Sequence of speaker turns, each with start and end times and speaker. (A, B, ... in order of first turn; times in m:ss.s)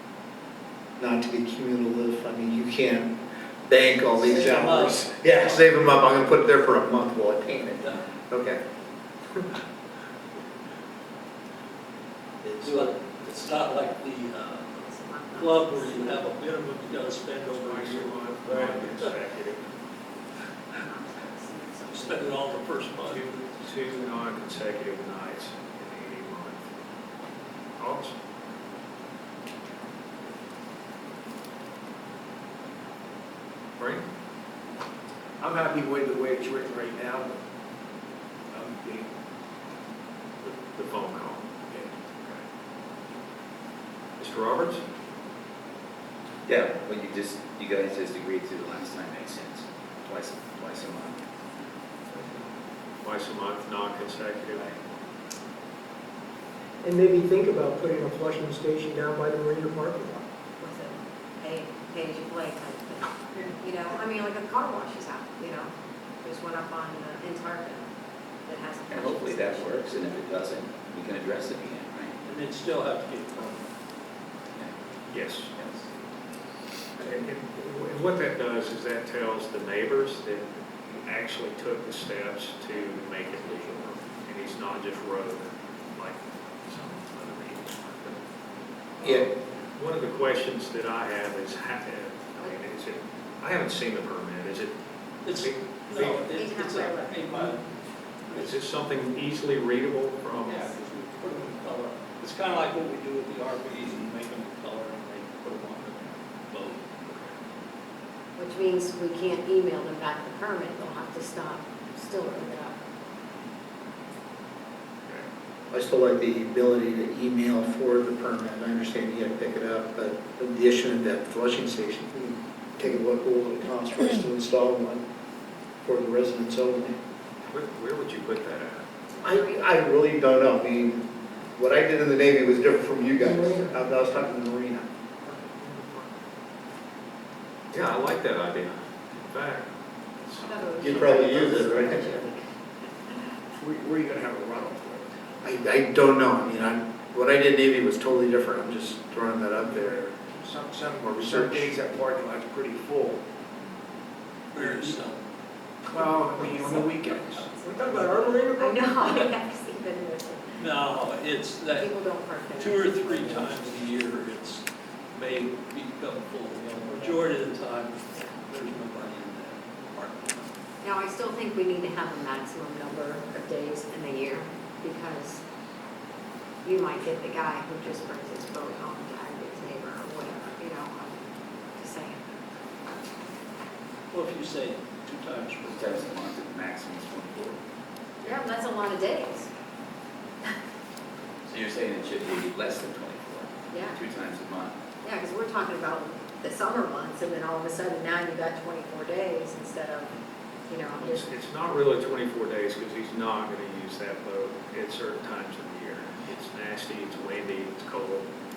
0:01.0-0:03.2 A
0:03.7-0:08.6 A
0:04.2-0:05.8 B
0:07.7-0:08.1 B
0:12.6-0:14.7 B
0:14.7-0:16.3 C
0:15.3-0:19.2 B
0:17.6-0:19.7 D
0:20.8-0:22.5 C
0:21.9-0:23.4 B
0:23.1-0:26.6 D
0:27.8-0:28.2 D
0:33.8-0:34.1 D
0:35.4-0:37.4 E
0:38.5-0:39.1 E
0:40.4-0:41.5 D
0:44.2-0:44.8 D
0:46.5-0:51.2 F
0:53.0-0:54.7 D
0:56.8-1:00.2 G
1:00.6-1:07.9 C
1:08.4-1:10.1 C
1:08.9-1:12.2 F
1:12.2-1:13.7 B
1:15.1-1:15.5 D
1:15.5-1:15.9 F
1:17.0-1:28.2 D
1:29.0-1:29.3 A
1:29.0-1:34.8 D
1:35.2-1:37.6 B
1:35.3-1:36.3 D
1:36.3-1:37.3 C
1:38.3-1:38.6 B
1:38.3-1:40.7 D
1:40.5-1:47.4 B
1:48.4-1:52.8 C
1:55.7-2:05.0 A
2:05.8-2:07.0 A
2:07.5-2:08.9 D
2:09.1-2:09.8 C
2:09.2-2:14.9 A
2:13.2-2:13.7 G
2:17.7-2:20.8 D
2:20.4-2:22.5 C
2:20.8-2:22.2 A
2:23.6-2:25.2 E
2:25.4-2:30.0 A
2:29.8-2:33.2 E
2:31.0-2:31.8 A
2:34.5-2:35.2 B
2:34.6-2:35.0 E
2:35.9-2:38.1 E
2:36.2-2:40.6 C
2:37.6-2:39.3 G
2:40.6-2:42.0 B
2:41.7-2:43.5 C
2:42.6-2:50.5 B
2:46.6-2:47.3 E
2:50.8-2:55.4 C
2:56.6-3:02.2 C
3:04.1-3:06.1 B
3:05.7-3:07.6 F
3:08.2-3:09.5 C
3:11.5-3:14.8 F
3:13.7-3:14.0 C
3:15.0-3:20.2 C
3:20.7-3:21.3 C
3:21.0-3:28.3 D